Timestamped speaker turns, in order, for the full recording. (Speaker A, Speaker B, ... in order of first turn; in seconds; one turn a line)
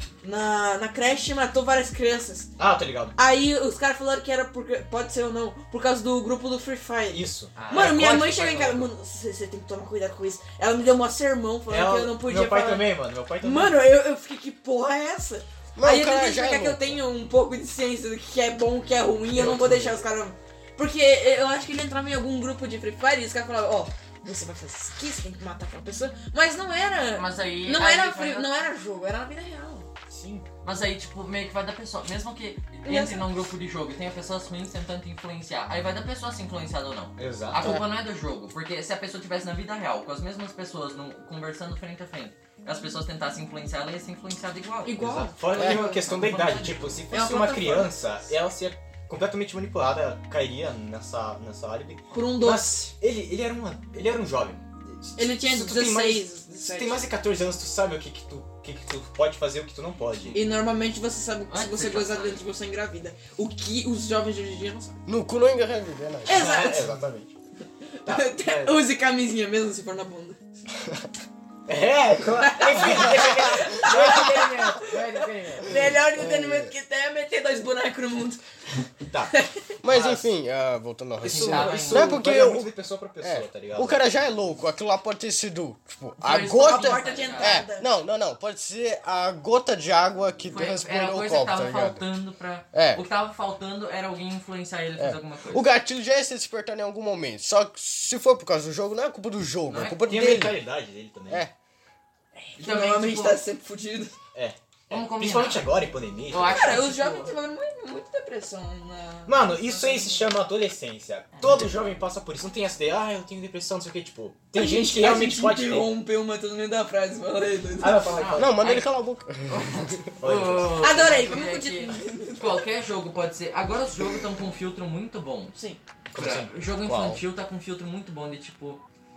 Speaker A: 0.2-2.5
Speaker B: 2.6-3.2
Speaker A: 3.1-29.9
Speaker B: 7.1-8.1
Speaker C: 7.5-8.9
Speaker B: 11.7-13.8
Speaker D: 15.7-17.0
Speaker B: 19.3-20.0
Speaker C: 27.1-28.5
Speaker B: 30.1-30.5
Speaker C: 30.6-47.0
Speaker A: 32.8-33.3
Speaker B: 37.2-37.7
Speaker D: 37.6-37.8
Speaker A: 44.8-46.0
Speaker B: 45.0-60.4
Speaker A: 47.1-48.0
Speaker A: 52.1-52.9
Speaker A: 55.1-57.1
Speaker C: 60.2-60.5
Speaker A: 60.3-65.0
Speaker C: 61.5-62.4
Speaker D: 65.0-66.5
Speaker A: 66.2-66.9
Speaker B: 66.3-67.3
Speaker A: 67.8-70.4
Speaker B: 68.0-68.8
Speaker B: 71.7-76.0
Speaker A: 72.4-78.4
Speaker D: 75.8-76.7
Speaker B: 79.1-79.3
Speaker A: 79.3-79.6
Speaker D: 79.8-92.0
Speaker B: 79.8-80.3
Speaker C: 81.2-82.2
Speaker B: 81.2-84.0
Speaker C: 86.2-87.6
Speaker A: 86.5-87.9
Speaker C: 90.5-95.7
Speaker D: 92.7-93.0
Speaker D: 95.0-100.6
Speaker C: 99.7-100.1
Speaker B: 100.0-101.4
Speaker D: 101.3-101.5
Speaker A: 102.3-104.1
Speaker C: 102.6-103.4
Speaker B: 104.3-106.8
Speaker C: 104.9-107.3
Speaker A: 106.4-110.2
Speaker B: 109.2-115.9
Speaker A: 114.5-118.2
Speaker B: 117.8-118.6
Speaker C: 118.1-118.9
Speaker D: 118.4-120.1
Speaker C: 119.5-125.6
Speaker B: 120.2-120.9
Speaker A: 120.8-122.6
Speaker A: 125.5-125.8
Speaker B: 126.1-127.1
Speaker C: 126.1-128.8